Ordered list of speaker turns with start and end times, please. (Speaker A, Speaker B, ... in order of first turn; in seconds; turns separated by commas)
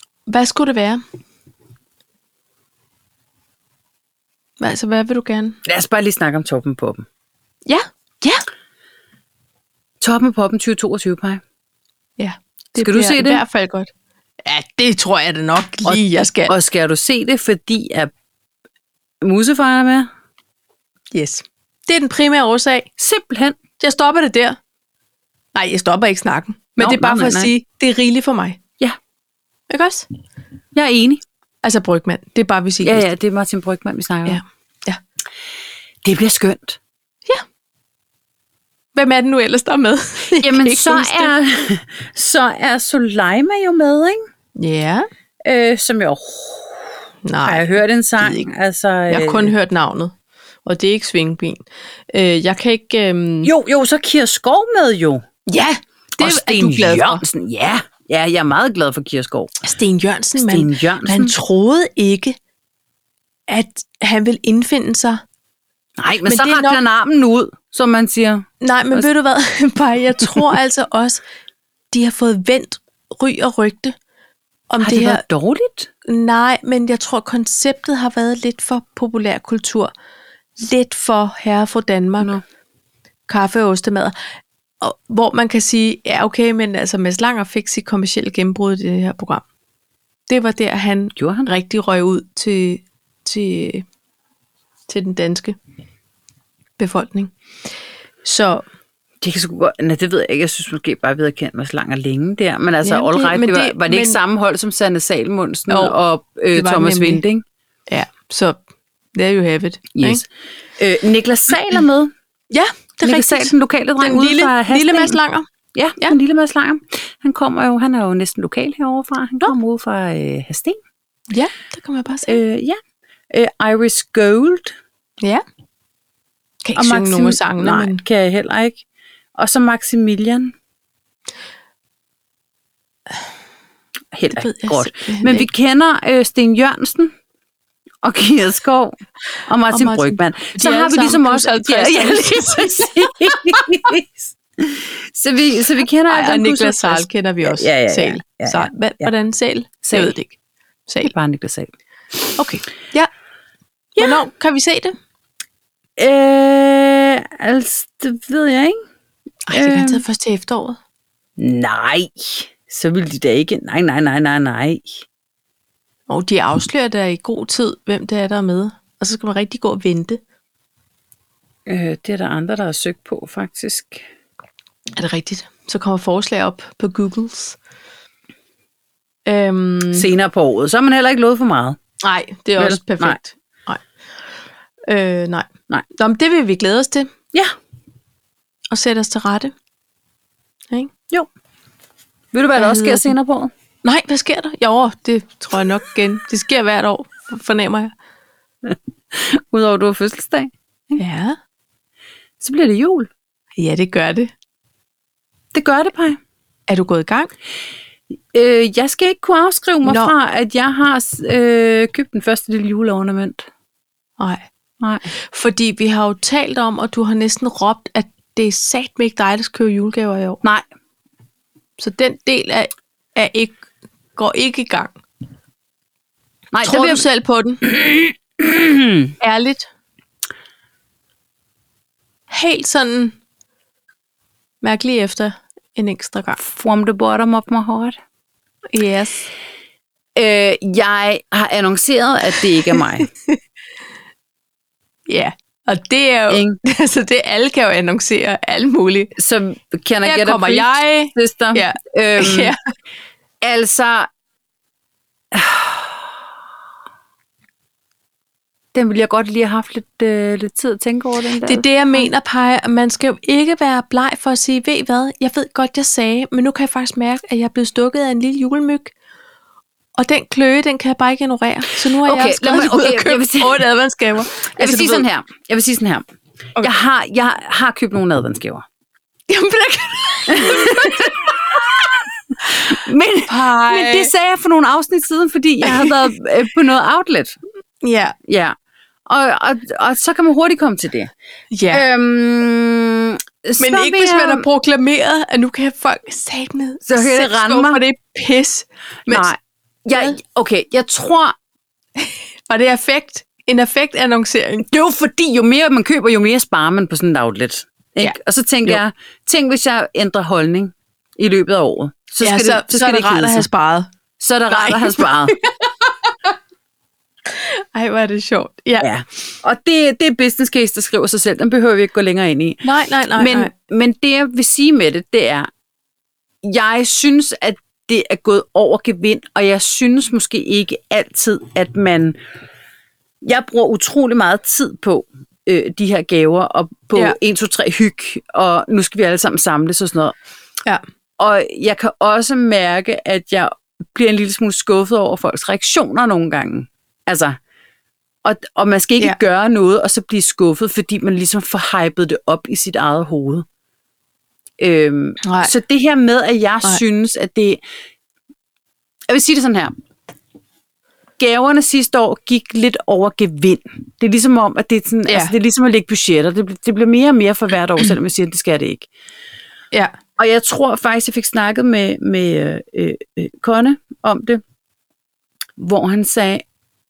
Speaker A: 0.3-1.0, Speaker A: 4.6-5.6, Speaker B: 5.6-7.1, Speaker A: 7.7-8.4, Speaker B: 10.0-11.4, Speaker A: 12.2-13.9, Speaker B: 12.8-13.4, Speaker A: 14.4-16.6, Speaker B: 15.9-18.1, Speaker B: 19.2-20.1, Speaker A: 21.1-22.9, Speaker B: 23.0-23.6, Speaker A: 23.8-24.6, Speaker A: 25.6-28.6, Speaker B: 26.8-27.5, Speaker A: 29.7-30.1, Speaker B: 30.7-31.2, Speaker A: 31.6-33.1, Speaker B: 32.8-34.4, Speaker A: 34.3-35.0, Speaker B: 36.0-36.8, Speaker A: 39.0-41.3, Speaker B: 40.4-44.2, Speaker A: 44.6-45.1, Speaker B: 45.4-49.5, Speaker A: 47.2-48.5, Speaker A: 49.1-50.1, Speaker A: 50.6-53.5, Speaker B: 53.4-55.2, Speaker A: 55.5-57.2, Speaker B: 56.2-59.5, Speaker A: 59.6-62.4, Speaker B: 60.4-61.4, Speaker A: 63.5-65.2, Speaker B: 66.0-69.1, Speaker A: 66.3-66.8, Speaker A: 68.6-71.2, Speaker B: 70.2-70.5, Speaker A: 71.9-74.0, Speaker A: 74.7-75.2, Speaker B: 74.8-75.9, Speaker A: 76.0-79.9, Speaker A: 80.6-82.4, Speaker A: 83.3-84.1, Speaker A: 84.8-89.4, Speaker A: 90.3-93.8, Speaker B: 91.2-91.5, Speaker A: 94.9-95.6, Speaker A: 96.8-97.3, Speaker A: 98.2-98.7, Speaker B: 99.2-107.4, Speaker A: 102.8-104.2, Speaker A: 105.7-106.0, Speaker A: 106.5-107.2, Speaker A: 107.9-108.6, Speaker A: 109.1-110.2, Speaker B: 110.0-112.1, Speaker A: 112.5-115.5, Speaker B: 113.0-115.2, Speaker B: 115.7-120.8, Speaker A: 121.3-122.4, Speaker B: 122.3-122.8, Speaker B: 123.3-124.8, Speaker A: 126.6-128.0, Speaker B: 126.8-128.8, Speaker B: 129.4-130.5, Speaker B: 134.1-137.1, Speaker A: 134.3-135.5, Speaker B: 138.0-138.9, Speaker B: 139.4-149.1, Speaker A: 139.7-143.9, Speaker A: 146.1-150.4, Speaker B: 149.8-150.1, Speaker B: 151.0-151.7, Speaker A: 152.4-153.1, Speaker B: 153.9-154.2, Speaker A: 154.0-154.9, Speaker B: 156.0-158.8, Speaker A: 159.5-160.8, Speaker B: 159.5-160.0, Speaker B: 161.4-165.0, Speaker A: 166.1-170.2, Speaker B: 171.7-174.1, Speaker A: 174.9-177.6, Speaker A: 179.3-180.1, Speaker B: 179.9-181.8, Speaker A: 182.0-183.8, Speaker B: 182.6-183.2, Speaker A: 184.9-187.1, Speaker A: 188.7-189.5, Speaker B: 192.3-193.5, Speaker A: 192.6-193.1, Speaker A: 193.8-197.9, Speaker B: 198.6-201.0, Speaker A: 201.0-201.4, Speaker B: 202.4-203.1, Speaker A: 203.6-204.3, Speaker B: 205.5-206.2, Speaker A: 206.7-207.3, Speaker B: 208.3-213.5, Speaker A: 209.8-210.1, Speaker A: 214.2-214.4, Speaker B: 214.8-215.1, Speaker A: 215.1-220.4, Speaker A: 221.8-223.6, Speaker A: 224.2-225.0, Speaker B: 226.5-227.1, Speaker A: 226.6-227.6, Speaker B: 227.6-229.1, Speaker A: 229.2-229.7, Speaker A: 232.3-233.2, Speaker A: 234.6-236.4, Speaker B: 236.4-238.0, Speaker A: 238.7-239.3, Speaker B: 240.1-243.1, Speaker A: 243.1-243.4, Speaker A: 245.1-249.1, Speaker B: 246.3-246.6, Speaker B: 249.2-252.6, Speaker A: 250.0-252.6, Speaker B: 253.4-254.1, Speaker B: 255.3-256.2, Speaker B: 258.7-262.1, Speaker A: 261.4-268.9, Speaker A: 270.0-275.1, Speaker B: 271.9-273.6, Speaker B: 274.5-276.1, Speaker B: 276.6-278.6, Speaker A: 279.3-281.9, Speaker B: 280.3-287.4, Speaker A: 283.3-284.1, Speaker A: 285.6-286.1, Speaker A: 287.8-288.1, Speaker B: 288.3-288.6, Speaker B: 289.1-291.1, Speaker A: 291.5-291.9, Speaker B: 291.7-294.4, Speaker A: 293.6-299.3, Speaker B: 296.9-297.8, Speaker B: 299.1-301.4, Speaker A: 302.0-304.7, Speaker B: 304.7-313.5, Speaker A: 312.2-313.9, Speaker B: 314.2-315.4, Speaker A: 314.5-316.4, Speaker A: 317.3-318.9, Speaker B: 318.8-325.5, Speaker A: 322.6-323.5, Speaker B: 326.4-332.2, Speaker B: 333.2-340.1, Speaker B: 341.2-347.4, Speaker B: 348.2-353.4, Speaker B: 354.6-357.6, Speaker A: 355.2-355.5, Speaker B: 359.1-359.7, Speaker B: 361.2-368.9, Speaker A: 365.1-365.3, Speaker B: 370.2-374.4, Speaker B: 375.6-376.4